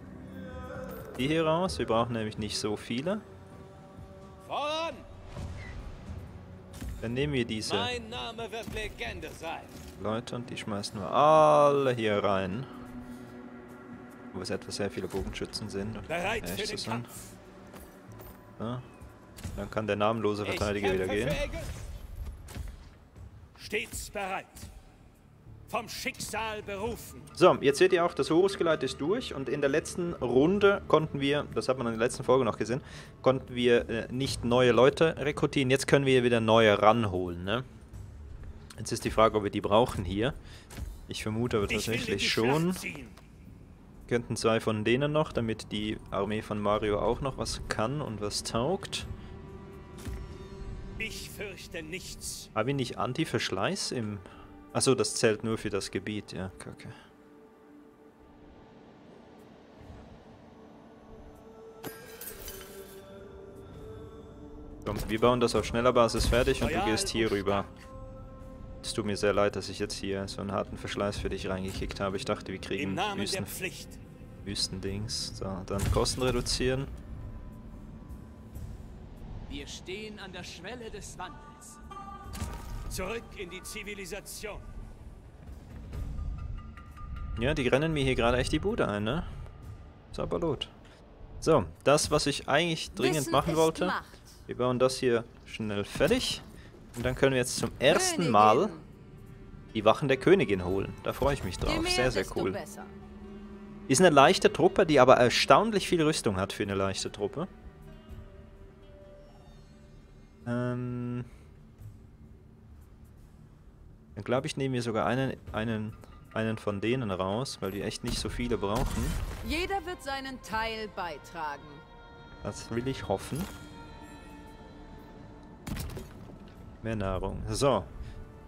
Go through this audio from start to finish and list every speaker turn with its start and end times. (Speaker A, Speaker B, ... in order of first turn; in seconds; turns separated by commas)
Speaker A: 1.2-3.2, Speaker B: 4.4-5.0, Speaker A: 7.0-7.9, Speaker B: 7.6-9.7, Speaker A: 10.0-12.7, Speaker A: 14.3-17.1, Speaker C: 16.1-17.3, Speaker A: 18.6-18.8, Speaker A: 19.5-21.4, Speaker B: 20.4-21.7, Speaker C: 23.6-24.7, Speaker C: 25.7-27.3, Speaker A: 27.4-37.6, Speaker A: 38.8-40.4, Speaker A: 41.1-42.8, Speaker C: 41.7-43.1, Speaker A: 44.1-49.1, Speaker C: 51.0-52.5, Speaker A: 52.5-57.0, Speaker A: 64.8-67.7, Speaker C: 66.6-67.8, Speaker A: 68.8-73.5, Speaker C: 72.7-74.0, Speaker A: 74.4-76.9, Speaker B: 79.5-81.8, Speaker C: 82.9-84.6, Speaker A: 87.4-89.3, Speaker A: 90.1-90.7, Speaker A: 91.4-98.8, Speaker D: 92.9-94.3, Speaker D: 97.9-98.8, Speaker A: 99.7-102.6, Speaker D: 101.6-102.9, Speaker A: 103.9-107.5, Speaker A: 110.5-111.3, Speaker A: 114.2-119.2, Speaker D: 119.4-121.8, Speaker A: 122.4-123.5, Speaker A: 126.8-127.9